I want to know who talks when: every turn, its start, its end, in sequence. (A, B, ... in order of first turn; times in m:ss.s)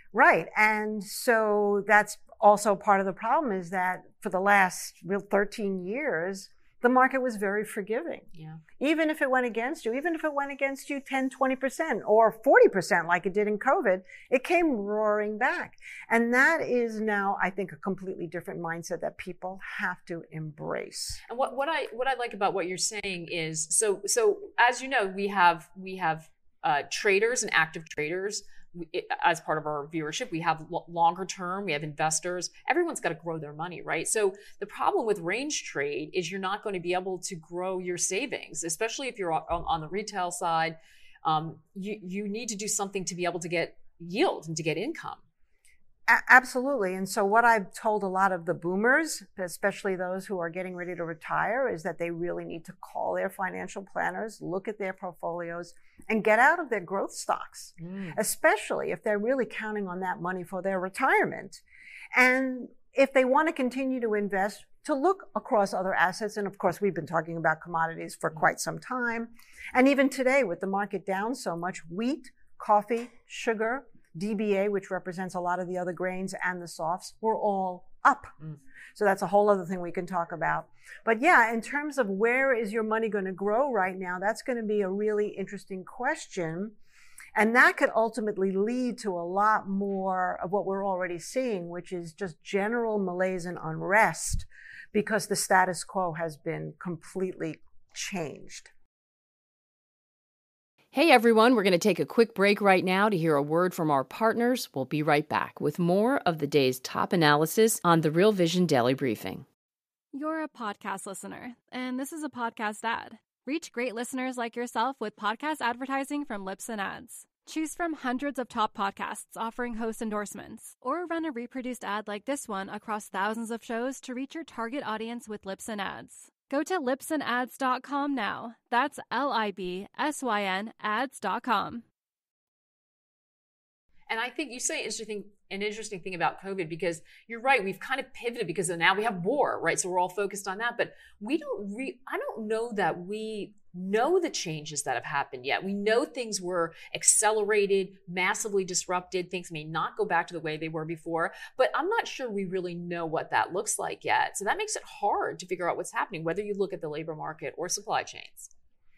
0:00.1-0:08.3 A
0:08.4-0:08.6 B
0:08.8-0:21.2 A
0:21.3-0:45.2 B
0:46.1-1:01.6 A
0:57.8-0:58.2 B
1:02.1-1:18.3 A
1:19.0-1:26.8 A
1:27.4-1:38.7 A
1:40.9-1:49.4 C
1:50.1-2:11.8 D
2:14.1-2:38.5 B